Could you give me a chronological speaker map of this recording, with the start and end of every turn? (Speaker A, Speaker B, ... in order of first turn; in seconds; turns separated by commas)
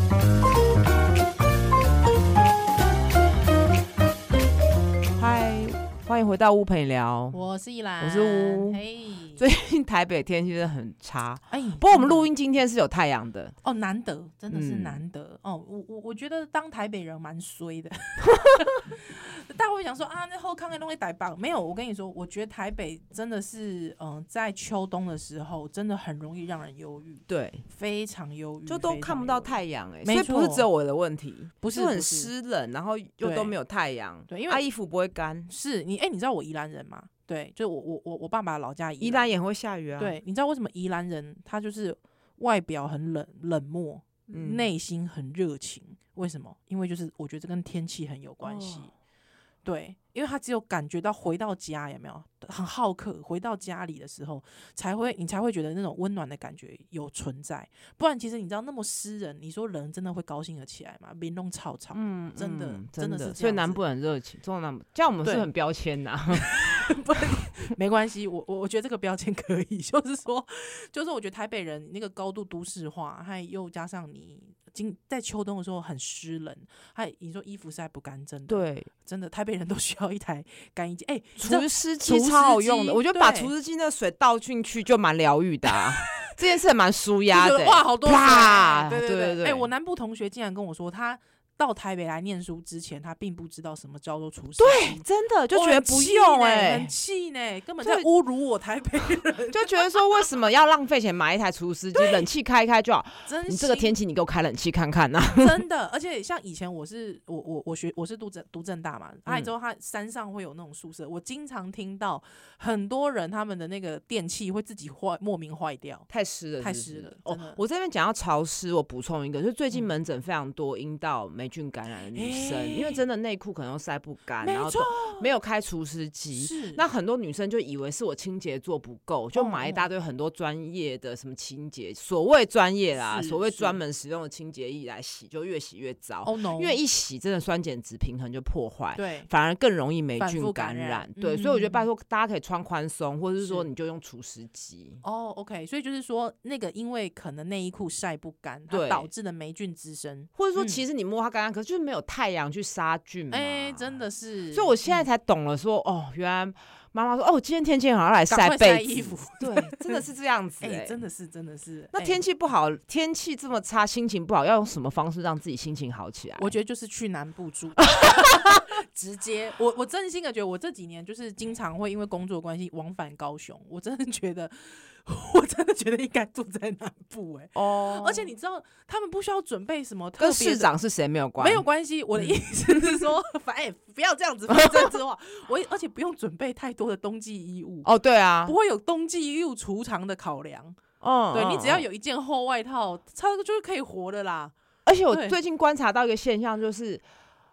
Speaker A: 5.2-7.4, Speaker B: 7.3-9.5, Speaker A: 8.0-8.8, Speaker A: 9.4-13.6, Speaker B: 11.5-12.3, Speaker B: 13.6-30.7, Speaker A: 14.5-15.0, Speaker A: 18.3-18.7, Speaker A: 27.3-27.6, Speaker A: 28.7-35.5, Speaker B: 31.6-32.3, Speaker B: 33.2-33.6, Speaker B: 34.3-34.6, Speaker B: 35.5-39.3, Speaker A: 39.0-40.2, Speaker B: 40.0-48.9, Speaker A: 44.3-44.7, Speaker A: 48.4-48.9, Speaker B: 49.6-63.8, Speaker A: 61.9-66.9, Speaker B: 65.2-65.5, Speaker B: 66.3-83.5, Speaker A: 78.5-78.9, Speaker A: 81.4-89.7, Speaker B: 85.7-86.3, Speaker B: 87.3-100.2, Speaker A: 94.6-96.9, Speaker A: 99.5-105.6, Speaker B: 101.9-102.3, Speaker B: 103.3-104.0, Speaker B: 105.3-116.1, Speaker A: 109.3-109.5, Speaker A: 116.1-145.0, Speaker B: 116.6-117.6, Speaker B: 122.1-123.0, Speaker B: 124.4-125.3, Speaker B: 126.4-126.8, Speaker B: 129.3-129.9, Speaker B: 133.0-133.8, Speaker B: 136.2-136.8, Speaker B: 138.9-139.3, Speaker B: 140.2-141.9, Speaker B: 143.4-143.7, Speaker B: 145.0-150.8, Speaker A: 148.7-149.1, Speaker A: 150.4-154.0, Speaker B: 153.3-155.1, Speaker A: 154.5-161.0, Speaker B: 158.3-160.1, Speaker B: 160.6-162.2, Speaker A: 161.9-166.5, Speaker B: 166.4-180.7, Speaker A: 168.0-168.5, Speaker A: 177.6-178.3, Speaker A: 180.2-181.6, Speaker B: 181.4-187.9, Speaker A: 182.2-183.0, Speaker A: 184.5-184.9, Speaker A: 187.8-188.6, Speaker B: 188.4-190.8, Speaker A: 191.0-191.8, Speaker B: 191.3-194.5, Speaker A: 194.9-197.0, Speaker B: 195.1-195.4